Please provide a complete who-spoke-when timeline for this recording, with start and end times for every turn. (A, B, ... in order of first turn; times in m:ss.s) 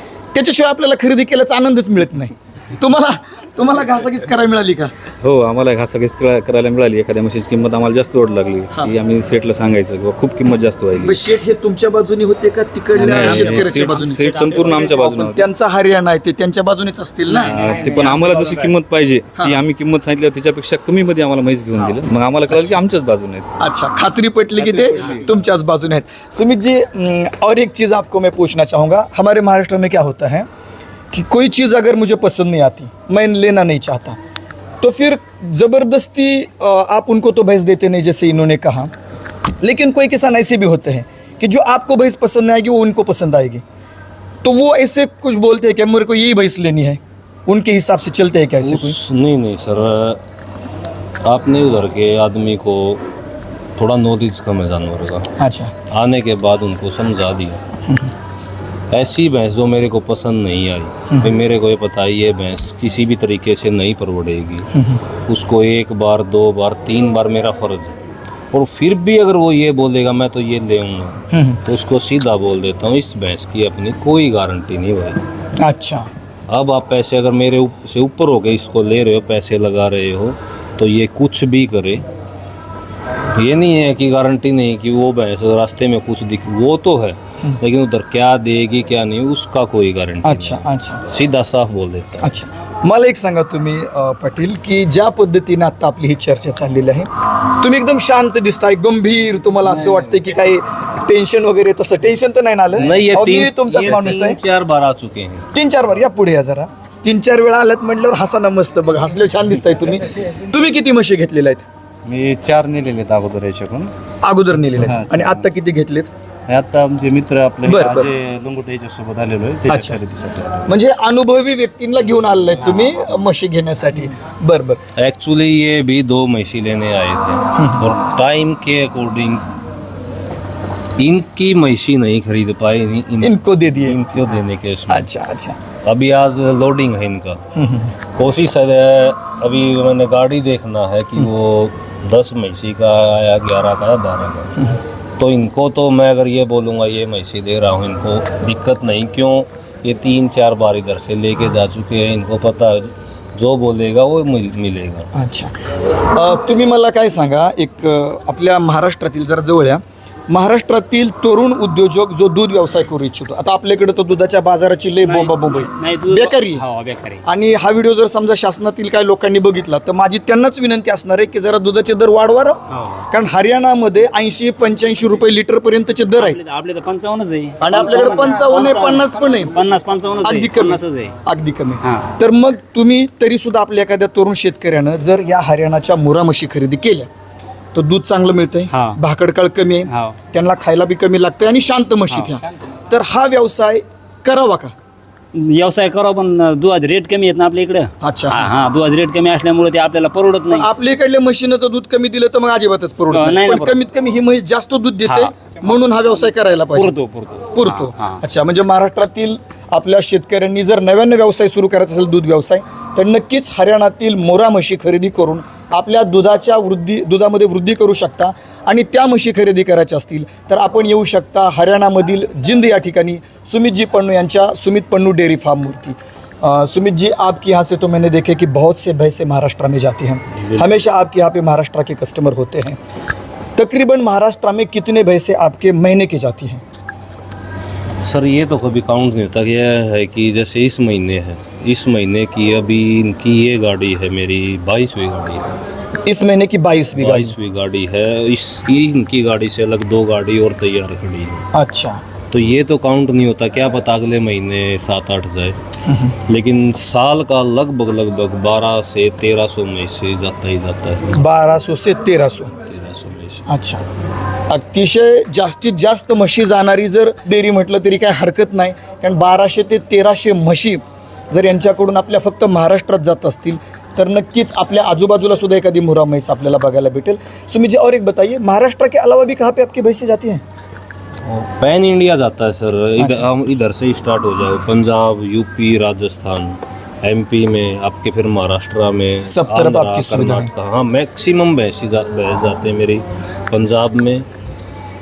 0:00.3-0:04.9 A
0:05.2-0:11.2 B
0:11.0-0:14.4 A
0:13.0-0:15.4 B
0:13.0-0:15.2 C
0:14.9-0:17.8 A
0:17.3-0:18.8 C
0:17.4-0:23.5 B
0:19.4-0:19.6 A
0:22.5-0:22.8 A
0:23.6-0:30.5 A
0:31.1-0:34.2 A
0:34.8-0:38.9 A
0:39.6-0:43.6 A
0:44.4-0:49.0 A
0:48.6-0:50.2 D
0:51.2-0:53.0 D
0:53.8-0:55.3 D
0:55.4-0:55.7 A
0:55.9-0:57.6 D
0:58.9-1:04.7 D
1:04.7-1:05.0 A
1:05.2-1:15.2 D
1:11.3-1:11.6 A
1:15.6-1:16.1 A
1:16.5-1:22.0 D
1:23.3-1:32.3 D
1:30.2-1:31.0 A
1:32.2-1:44.4 A
1:42.7-1:45.5 D
1:45.5-1:51.6 A
1:52.0-1:53.9 E
1:54.2-1:56.1 A
1:54.7-1:55.4 E
1:56.5-2:00.7 E
1:57.6-1:58.1 A
1:59.7-2:00.0 A
2:00.7-2:04.8 A
2:05.0-2:09.5 D
2:07.5-2:07.8 A
2:11.0-2:15.1 D
2:13.2-2:14.0 A
2:14.9-2:15.6 A
2:15.8-2:17.4 D
2:17.5-2:17.9 A
2:18.1-2:24.6 D
2:25.2-2:35.1 D
2:35.1-2:35.5 A
2:36.1-2:46.6 A
2:45.0-2:47.2 C
2:47.2-2:56.4 A
2:52.7-2:53.0 C
2:56.2-3:01.1 C
2:57.6-2:59.5 A
3:00.2-3:07.1 A
3:01.8-3:02.1 C
3:07.7-3:14.7 A
3:08.7-3:09.0 C
3:09.9-3:10.1 C
3:12.1-3:12.4 C
3:15.3-3:20.7 C
3:18.0-3:18.5 A
3:20.5-3:27.0 A
3:23.1-3:23.8 C
3:25.0-3:25.5 C
3:26.7-3:28.2 C
3:27.5-3:52.8 A
3:50.4-3:50.8 D
3:53.6-3:56.6 A
3:58.0-4:05.5 D
4:06.0-4:07.3 A
4:07.0-4:11.4 D
4:11.5-4:12.0 A
4:12.3-4:15.6 D
4:15.8-4:16.1 A
4:16.2-4:21.2 D
4:21.1-4:22.5 A
4:22.7-4:23.4 D
4:23.5-4:23.8 A
4:24.5-4:40.4 A
4:41.2-4:54.3 D
4:43.0-4:43.3 A
4:49.2-4:50.5 A